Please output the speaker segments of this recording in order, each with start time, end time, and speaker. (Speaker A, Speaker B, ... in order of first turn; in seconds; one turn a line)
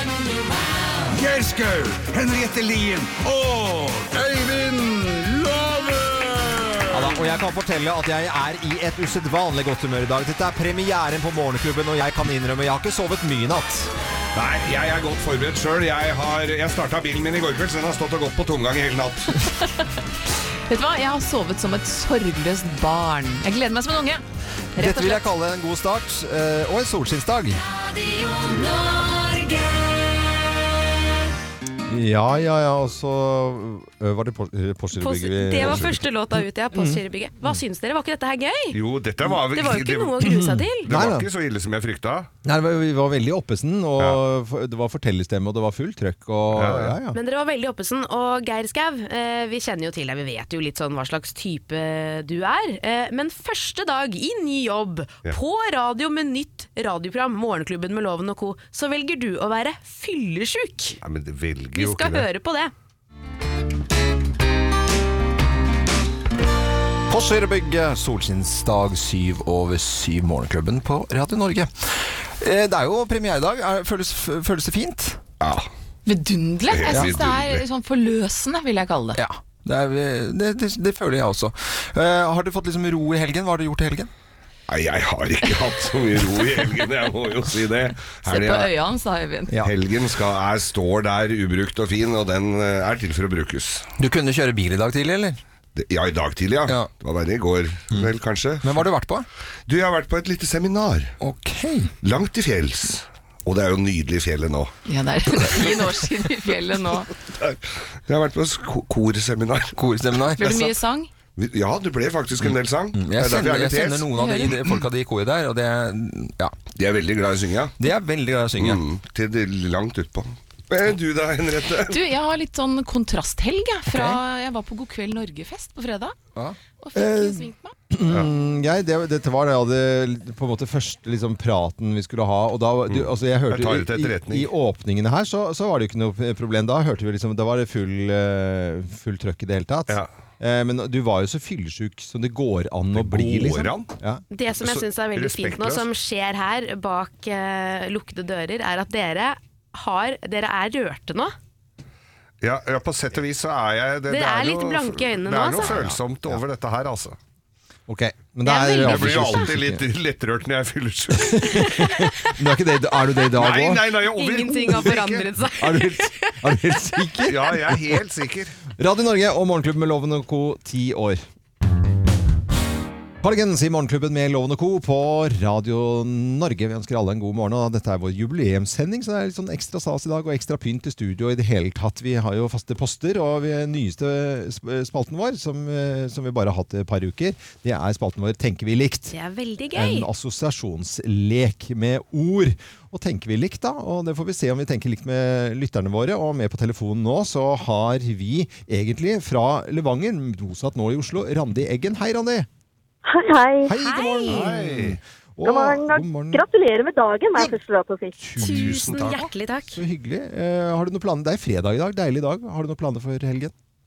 Speaker A: 0.3-0.9
Speaker B: 1.1-6.8
Speaker C: 6.9-13.9
Speaker D: 14.3-19.4
Speaker E: 19.4-19.8
Speaker E: 20.7-24.2
Speaker E: 24.8-25.3
Speaker C: 24.8-27.6
Speaker A: 27.9-29.7
Speaker C: 31.9-36.0
Speaker F: 35.0-38.8
Speaker C: 36.7-37.6
Speaker D: 38.7-40.3
Speaker F: 39.3-40.9
Speaker C: 40.2-41.3
Speaker D: 40.9-42.3
Speaker C: 42.4-47.2
Speaker D: 46.5-47.0
Speaker F: 47.1-61.0
Speaker D: 61.0-62.3
Speaker F: 61.8-62.7
Speaker C: 67.1-75.2
Speaker E: 76.1-79.2
Speaker D: 76.7-77.6
Speaker C: 79.2-84.1
Speaker D: 84.7-88.7
Speaker E: 88.2-89.5
Speaker D: 89.6-93.9
Speaker C: 94.0-95.4
Speaker D: 95.8-98.8
Speaker C: 98.6-99.3
Speaker D: 99.7-101.1
Speaker C: 101.2-101.9
Speaker D: 102.0-104.7
Speaker E: 104.9-107.1
Speaker D: 107.4-109.8
Speaker C: 109.8-110.7
Speaker E: 110.3-111.1
Speaker D: 111.4-114.1
Speaker C: 112.5-116.6
Speaker E: 114.2-114.6
Speaker D: 116.8-117.8
Speaker C: 117.8-118.8
Speaker D: 118.6-122.0
Speaker E: 121.9-126.2
Speaker C: 123.9-124.2
Speaker C: 126.4-144.2
Speaker E: 126.8-127.8
Speaker D: 132.9-134.5
Speaker D: 142.9-143.9
Speaker F: 144.3-151.3
Speaker D: 144.6-145.9
Speaker D: 152.4-157.2
Speaker F: 154.1-155.8
Speaker C: 155.6-156.4
Speaker C: 157.9-159.8
Speaker F: 158.4-159.5
Speaker D: 158.8-161.7
Speaker C: 161.1-163.9
Speaker D: 163.4-165.2
Speaker F: 164.2-166.3
Speaker C: 164.7-165.0
Speaker C: 165.6-167.8
Speaker D: 167.3-168.5
Speaker C: 168.8-171.2
Speaker C: 173.2-189.1
Speaker F: 189.1-190.1
Speaker C: 189.8-202.5
Speaker G: 203.1-203.7
Speaker C: 203.6-206.4
Speaker F: 203.7-204.4
Speaker D: 204.3-205.0
Speaker G: 205.4-208.2
Speaker C: 208.2-213.5
Speaker F: 208.4-209.8
Speaker D: 208.4-209.2